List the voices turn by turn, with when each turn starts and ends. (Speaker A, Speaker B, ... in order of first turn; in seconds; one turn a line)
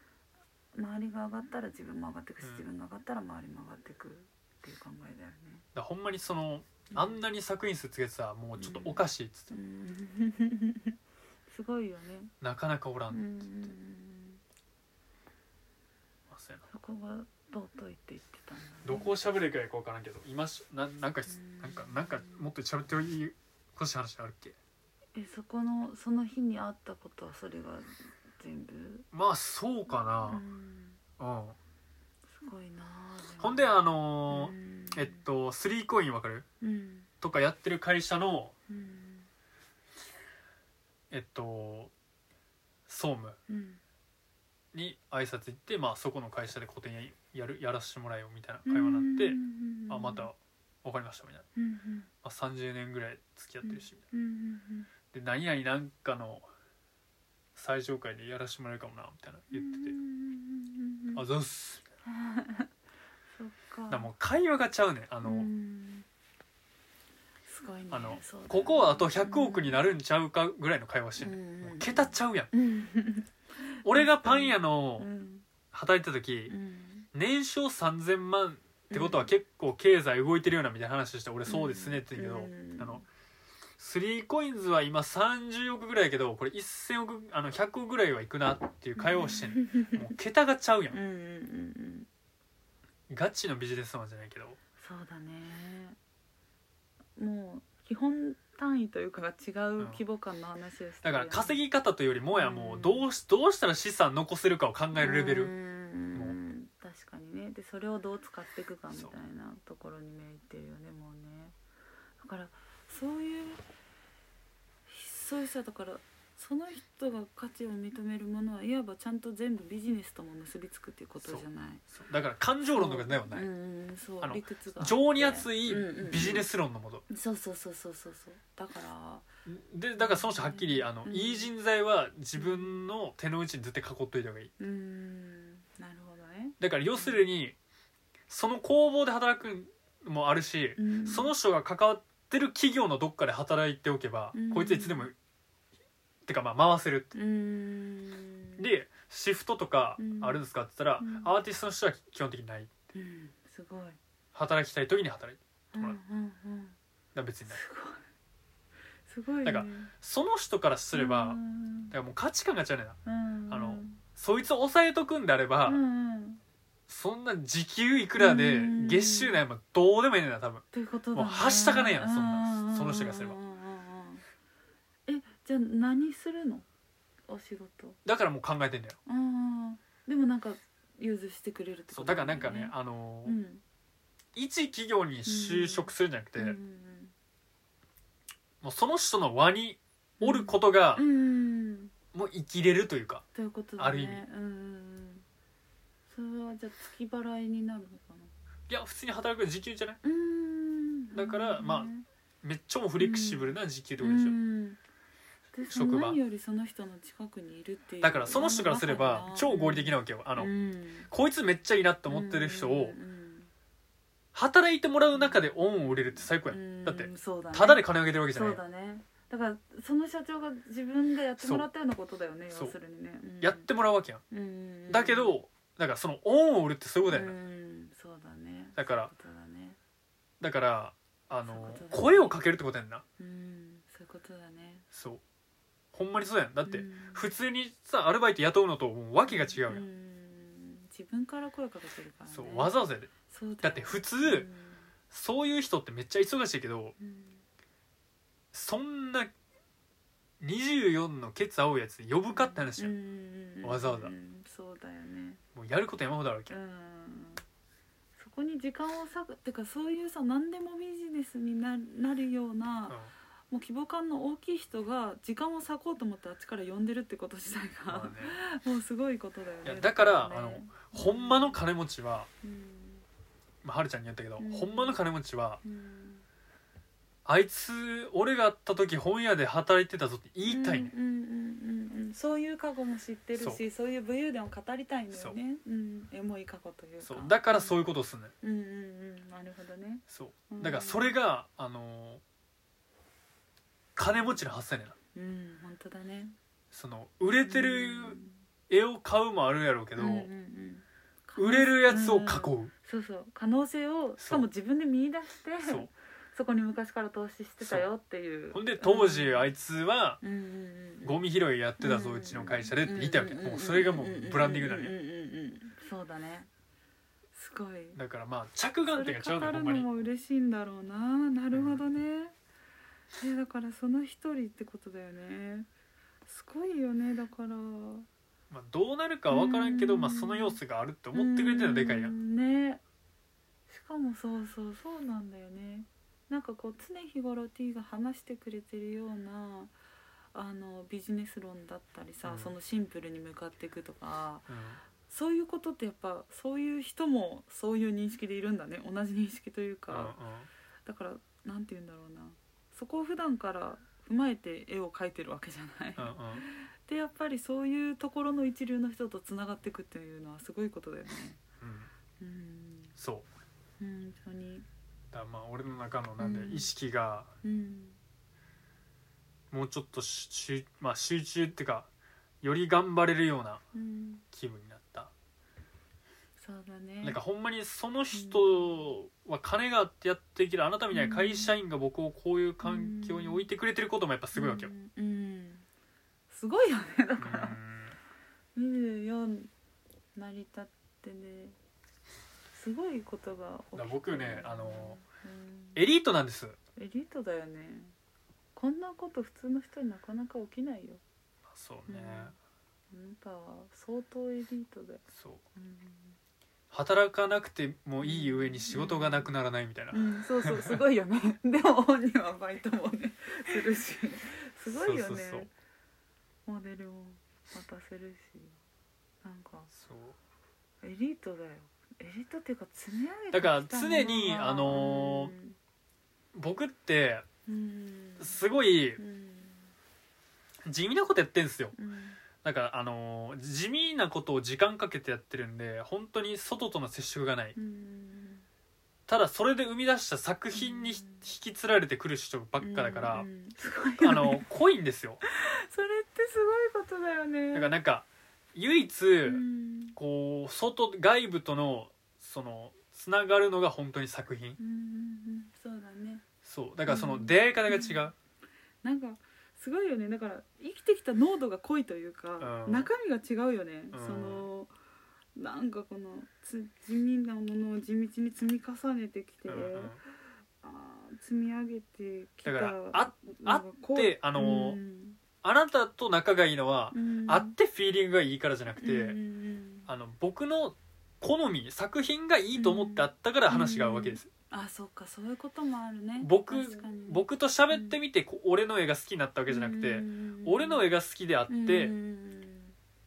Speaker A: 0.7-5.6
Speaker B: 5.7-9.6
Speaker A: 6.9-7.2
Speaker A: 8.6-12.3
Speaker B: 12.4-13.2
Speaker A: 13.1-14.4
Speaker B: 16.3-16.6
Speaker A: 16.7-19.1
Speaker B: 18.8-24.6
Speaker A: 21.3-22.4
Speaker A: 25.1-29.1
Speaker B: 29.1-30.4
Speaker A: 29.9-31.0
Speaker B: 31.2-31.6
Speaker A: 32.3-35.2
Speaker B: 33.4-36.5
Speaker A: 36.6-37.1
Speaker B: 37.2-38.5
Speaker A: 38.7-39.3
Speaker B: 41.1-41.9
Speaker B: 42.9-43.4
Speaker A: 43.5-43.8
Speaker B: 44.7-51.5
Speaker A: 48.6-50.3
Speaker A: 51.5-52.1
Speaker B: 52.2-54.0
Speaker A: 53.6-54.9
Speaker B: 55.1-56.5
Speaker B: 57.5-59.9
Speaker A: 59.5-61.2
Speaker B: 61.1-61.8
Speaker A: 62.0-62.7
Speaker A: 63.4-64.1
Speaker B: 63.9-65.5
Speaker A: 65.2-66.1
Speaker A: 67.5-69.8
Speaker B: 67.9-72.5
Speaker A: 71.2-75.5
Speaker B: 73.8-75.1
Speaker B: 75.7-76.5
Speaker A: 76.5-77.1
Speaker B: 77.1-83.0
Speaker A: 78.9-79.3
Speaker A: 81.5-83.0
Speaker B: 83.8-91.0
Speaker A: 89.0-90.1
Speaker A: 90.9-92.1
Speaker B: 93.1-94.6
Speaker A: 94.8-96.0
Speaker A: 97.2-101.6
Speaker B: 101.0-105.5
Speaker A: 102.3-103.1
Speaker A: 105.0-111.5
Speaker A: 112.2-113.6
Speaker A: 114.9-121.8
Speaker B: 121.2-123.5
Speaker A: 122.7-126.5
Speaker B: 124.2-127.0
Speaker A: 127.1-129.3
Speaker B: 129.4-134.5
Speaker A: 130.0-131.5
Speaker A: 132.3-132.8
Speaker A: 134.6-137.2
Speaker B: 136.6-137.6
Speaker B: 138.3-145.1
Speaker A: 140.8-141.3
Speaker A: 144.3-145.1
Speaker B: 146.2-147.1
Speaker A: 147.1-148.6
Speaker B: 148.6-152.7
Speaker A: 150.0-150.4
Speaker A: 151.0-151.3
Speaker A: 152.9-154.0
Speaker B: 154.3-156.0
Speaker A: 155.7-156.8
Speaker B: 157.1-157.6
Speaker A: 157.5-158.0
Speaker A: 159.1-159.9
Speaker B: 159.4-161.4
Speaker A: 160.9-161.9
Speaker B: 161.9-163.0
Speaker A: 163.0-164.0
Speaker B: 163.5-165.8
Speaker A: 165.7-166.4
Speaker B: 166.9-173.4
Speaker A: 168.2-169.4
Speaker A: 170.7-174.2
Speaker A: 175.1-176.7
Speaker A: 177.3-178.0
Speaker B: 178.0-179.0
Speaker A: 179.1-183.6
Speaker B: 181.9-183.4
Speaker B: 184.3-186.6
Speaker A: 185.2-187.1
Speaker B: 188.6-191.0
Speaker A: 190.2-191.9
Speaker B: 192.1-193.2
Speaker A: 193.3-195.2
Speaker B: 193.8-194.2
Speaker A: 196.1-198.3
Speaker B: 198.7-200.0
Speaker A: 200.0-202.1
Speaker B: 201.1-201.9
Speaker B: 202.4-204.4
Speaker A: 203.0-204.8
Speaker A: 205.5-211.1
Speaker B: 205.7-206.2
Speaker B: 208.0-210.5
Speaker B: 211.1-213.0
Speaker A: 212.1-213.5
Speaker B: 214.3-218.6
Speaker A: 215.1-223.7
Speaker B: 221.4-221.7
Speaker B: 223.4-224.2
Speaker A: 224.3-225.3
Speaker B: 224.9-227.3
Speaker A: 227.1-229.8
Speaker B: 228.8-229.1
Speaker B: 230.4-233.0
Speaker A: 231.4-232.4
Speaker A: 233.2-234.8
Speaker B: 234.9-235.2
Speaker B: 235.9-239.8
Speaker A: 236.6-237.2
Speaker A: 239.2-244.9
Speaker B: 242.3-243.1
Speaker B: 243.6-244.5
Speaker B: 245.1-246.9
Speaker A: 247.0-247.4
Speaker B: 248.5-249.3
Speaker B: 250.4-252.9
Speaker A: 252.3-255.4
Speaker B: 253.6-254.1
Speaker B: 255.5-256.6
Speaker A: 256.5-257.4
Speaker A: 258.2-263.0
Speaker A: 263.5-271.6
Speaker B: 267.9-268.4
Speaker B: 269.6-272.3
Speaker A: 272.4-273.0
Speaker B: 273.6-275.6
Speaker A: 274.4-275.0
Speaker A: 275.6-276.2
Speaker B: 277.2-280.9
Speaker A: 280.4-287.9
Speaker B: 285.1-285.4
Speaker B: 287.0-288.3
Speaker A: 288.4-291.2
Speaker B: 290.1-292.2
Speaker B: 293.9-294.9
Speaker A: 295.1-296.4
Speaker B: 296.7-300.3
Speaker A: 297.4-298.4
Speaker A: 299.9-309.5
Speaker B: 301.4-302.7
Speaker B: 304.2-304.5
Speaker B: 305.6-305.9
Speaker B: 307.6-307.9
Speaker B: 308.5-310.2
Speaker A: 310.2-311.1
Speaker B: 311.0-314.9
Speaker A: 311.8-316.5
Speaker A: 317.3-318.0
Speaker B: 317.9-319.9
Speaker A: 318.9-322.3
Speaker B: 321.5-321.8
Speaker A: 323.2-325.7
Speaker A: 326.2-328.1
Speaker B: 328.5-332.1
Speaker A: 329.3-330.6
Speaker A: 331.1-332.8
Speaker A: 333.7-339.7
Speaker A: 340.3-350.1
Speaker B: 342.2-342.5
Speaker B: 344.5-344.8
Speaker B: 349.9-350.5
Speaker A: 350.8-361.4
Speaker B: 356.0-356.4
Speaker B: 361.6-361.9
Speaker A: 362.2-362.9
Speaker B: 363.0-363.2
Speaker A: 363.8-364.6
Speaker B: 365.1-367.3
Speaker A: 366.2-366.7
Speaker A: 367.4-368.0
Speaker B: 369.5-371.9
Speaker B: 372.4-373.6
Speaker A: 373.7-374.2
Speaker B: 374.3-375.1
Speaker A: 376.4-377.2
Speaker B: 377.0-384.7
Speaker A: 378.1-378.9
Speaker A: 380.9-381.5
Speaker A: 382.6-383.5
Speaker A: 384.3-385.6
Speaker A: 386.3-387.6
Speaker B: 387.2-387.9
Speaker A: 388.5-389.5
Speaker A: 390.1-391.6
Speaker A: 392.5-395.8
Speaker B: 393.7-395.0
Speaker B: 395.7-396.6
Speaker A: 396.8-397.9
Speaker A: 398.5-401.0
Speaker B: 401.5-402.3
Speaker A: 401.9-402.3
Speaker A: 402.9-405.0
Speaker B: 405.1-405.4
Speaker A: 405.5-406.2
Speaker B: 406.7-410.8
Speaker A: 408.0-409.3
Speaker A: 409.9-415.5
Speaker B: 414.7-415.5
Speaker A: 416.4-418.6
Speaker A: 419.2-419.7
Speaker B: 419.7-420.1
Speaker A: 420.8-425.6
Speaker B: 423.3-425.3
Speaker B: 426.3-427.2
Speaker A: 427.4-428.4
Speaker B: 428.2-429.0
Speaker A: 429.0-429.7
Speaker B: 430.6-431.7
Speaker A: 431.7-432.2
Speaker B: 432.4-437.6
Speaker A: 437.6-438.4
Speaker B: 439.1-443.3
Speaker A: 440.5-441.3
Speaker A: 442.6-444.4
Speaker B: 444.0-445.2
Speaker A: 445.3-447.7
Speaker B: 447.5-449.4
Speaker A: 449.2-449.9
Speaker B: 449.9-454.6
Speaker A: 454.6-456.2
Speaker B: 456.4-458.1
Speaker A: 456.9-458.0
Speaker A: 458.8-464.7
Speaker B: 462.4-462.9
Speaker B: 463.9-464.5
Speaker A: 465.3-470.0
Speaker B: 469.5-470.0
Speaker A: 470.6-475.2
Speaker B: 472.4-474.8
Speaker B: 475.4-479.2
Speaker A: 476.9-477.5
Speaker A: 478.8-479.9
Speaker B: 479.9-484.3
Speaker A: 482.5-488.0
Speaker B: 486.2-491.9
Speaker A: 489.5-490.9
Speaker A: 491.5-492.8